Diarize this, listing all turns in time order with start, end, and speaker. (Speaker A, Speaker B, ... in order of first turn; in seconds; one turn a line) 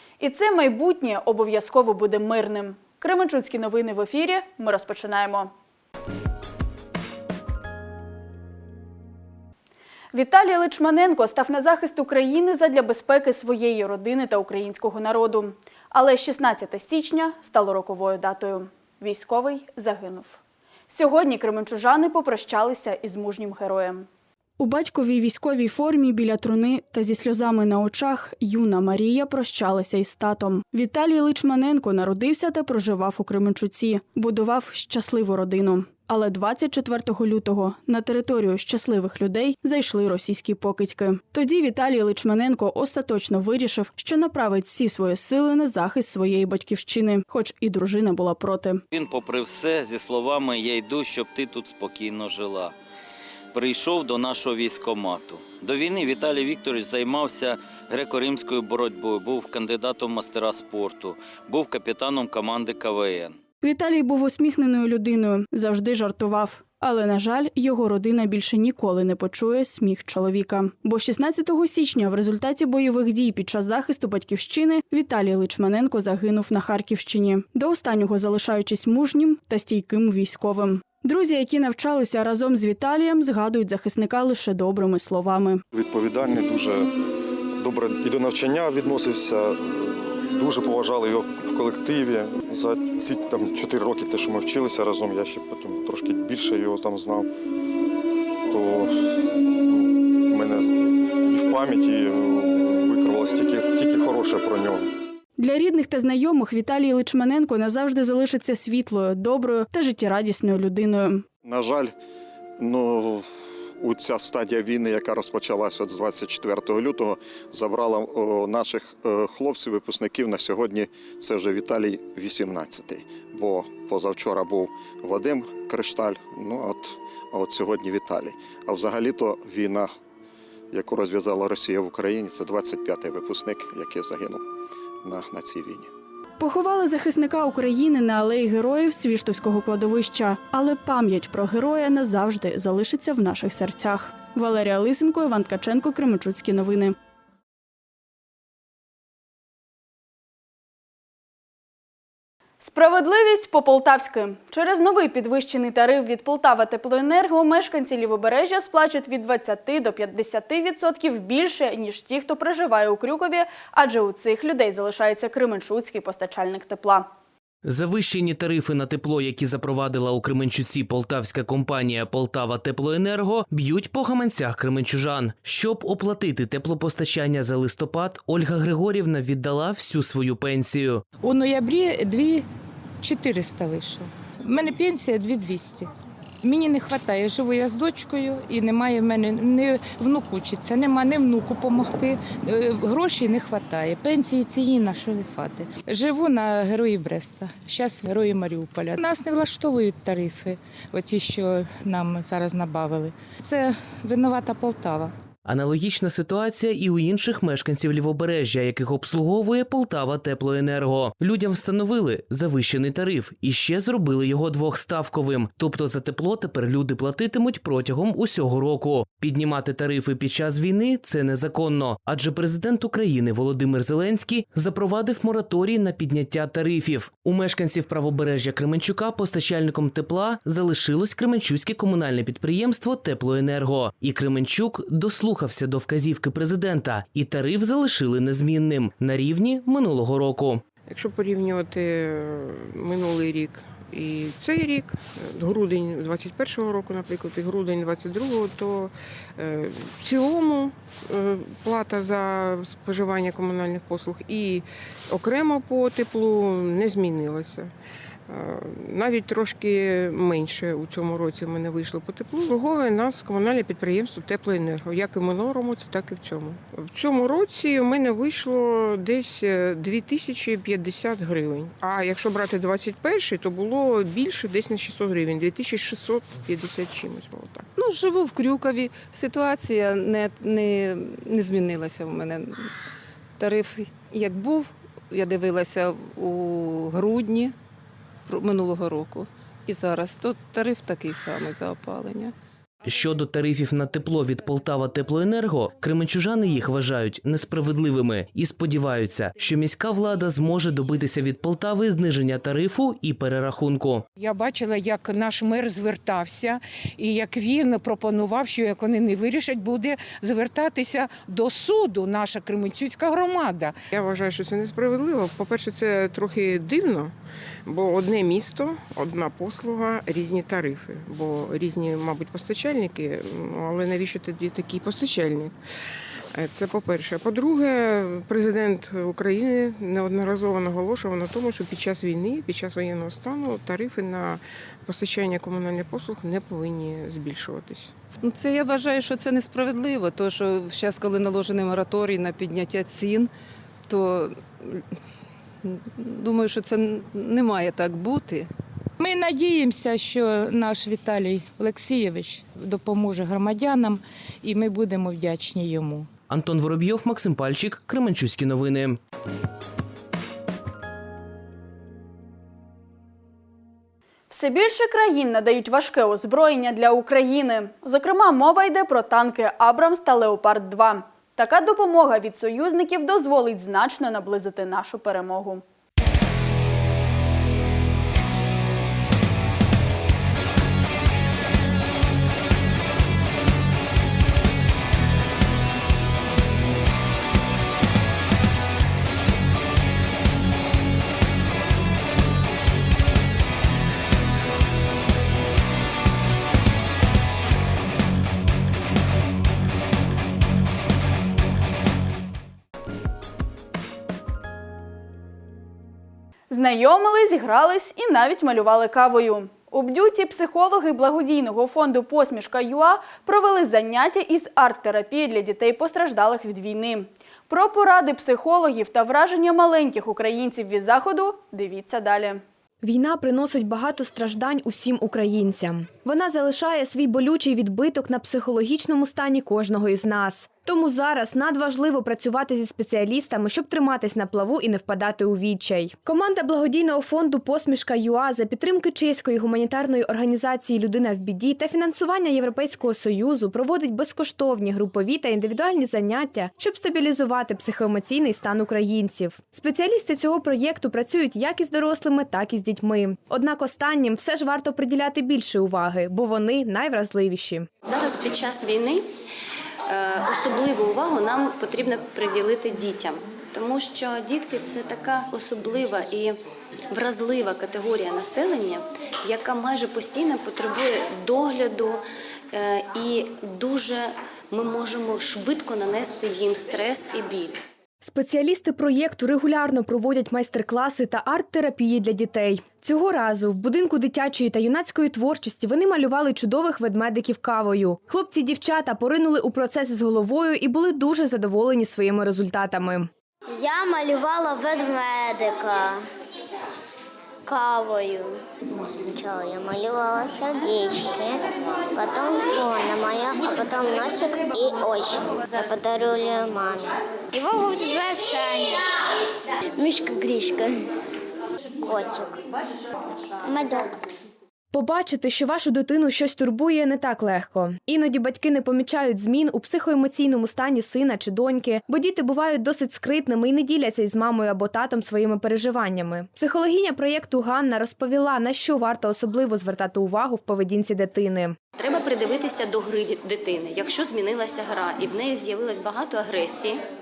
Speaker A: 0.2-5.5
Speaker A: 10.1-20.4
Speaker A: 20.9-24.1
Speaker A: 24.6-48.8
Speaker B: 48.9-52.7
Speaker B: 53.5-63.4
Speaker A: 63.6-85.6
Speaker C: 85.7-86.9
Speaker C: 87.6-97.3
Speaker C: 98.5-99.0
Speaker C: 99.7-104.9
Speaker A: 105.4-111.2
Speaker C: 111.4-111.9
Speaker C: 112.6-113.3
Speaker C: 113.8-129.9
Speaker C: 130.7-134.5
Speaker C: 135.0-135.9
Speaker A: 136.4-146.9
Speaker A: 152.6-167.1
Speaker D: 167.6-181.0
Speaker E: 181.2-182.5
Speaker E: 183.0-185.9
Speaker E: 186.4-205.1
Speaker D: 205.4-240.6
Speaker F: 240.9-257.7
Speaker F: 258.3-277.7
Speaker G: 277.8-282.7
Speaker G: 283.4-287.5
Speaker G: 288.3-292.3
Speaker D: 292.9-304.1
Speaker H: 304.2-313.8
Speaker F: 313.9-317.1
Speaker F: 317.7-325.6
Speaker F: 326.3-338.0
Speaker G: 338.2-343.3
Speaker G: 343.9-344.8
Speaker G: 345.6-348.5
Speaker E: 349.0-356.1
Speaker D: 356.3-359.0
Speaker A: 364.3-375.6
Speaker A: 406.5-422.4
Speaker I: 422.8-457.7
Speaker J: 457.9-459.1
Speaker J: 459.9-466.4
Speaker J: 466.9-472.0
Speaker J: 472.5-477.6
Speaker I: 478.0-493.1
Speaker K: 493.5-496.0
Speaker K: 497.5-508.9
Speaker K: 509.8-510.8
Speaker K: 511.9-512.4
Speaker K: 513.5-514.0
Speaker I: 514.7-531.6
Speaker J: 531.8-536.8